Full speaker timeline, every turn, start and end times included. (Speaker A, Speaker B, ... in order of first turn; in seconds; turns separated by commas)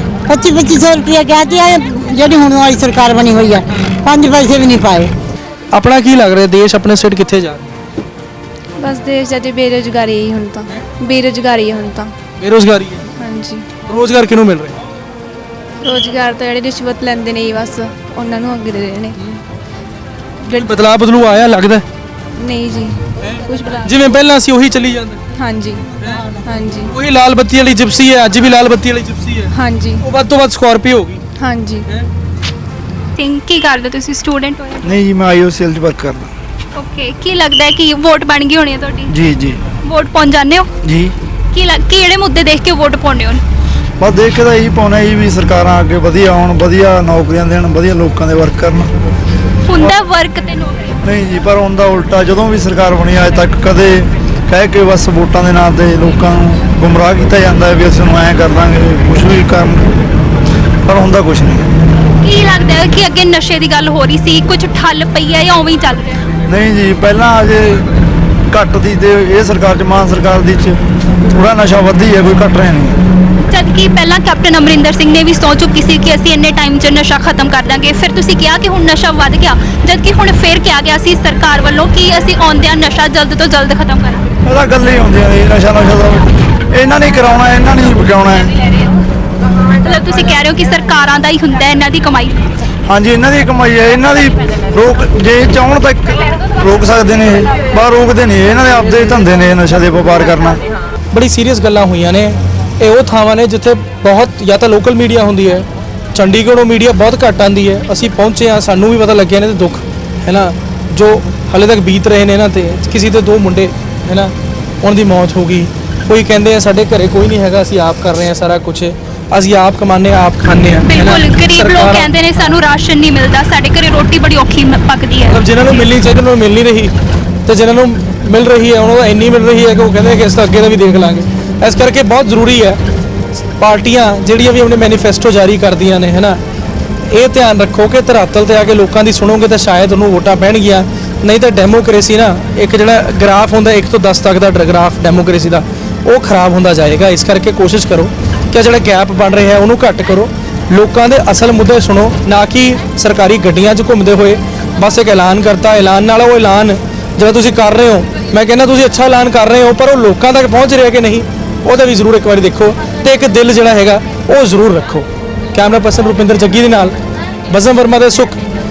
Speaker A: 0.3-5.1, Speaker B: 5.7-7.6, Speaker C: 8.8-12.1, Speaker B: 12.4-13.1, Speaker C: 13.2-13.7, Speaker B: 13.8-14.8, Speaker C: 15.8-19.1, Speaker B: 20.6-21.8, Speaker C: 22.4-23.9, Speaker B: 23.8-25.2, Speaker C: 25.3-25.9, Speaker C: 26.4-26.9, Speaker B: 26.9-29.5, Speaker C: 29.5-30.0, Speaker B: 30.0-31.2, Speaker C: 31.4-31.9, Speaker D: 33.2-34.9, Speaker E: 34.8-36.3, Speaker D: 36.8-39.1, Speaker E: 39.1-39.6, Speaker D: 39.8-40.7, Speaker E: 40.8-41.1, Speaker D: 41.5-43.4, Speaker E: 44.0-48.9, Speaker D: 49.7-50.9, Speaker E: 51.0-60.0, Speaker E: 60.8-61.7, Speaker D: 62.2-66.2, Speaker E: 66.5-67.8, Speaker E: 68.5-70.8, Speaker E: 71.3-73.0, Speaker D: 73.5-84.2, Speaker E: 84.5-88.5, Speaker D: 89.8-92.5, Speaker E: 92.9-100.6, Speaker B: 101.1-122.1, Speaker D: 120.9-125.4, Speaker B: 125.3-126.9, Speaker B: 127.5-132.8, Speaker B: 133.6-136.4, Speaker B: 137.1-166.9, Speaker B: 167.5-168.4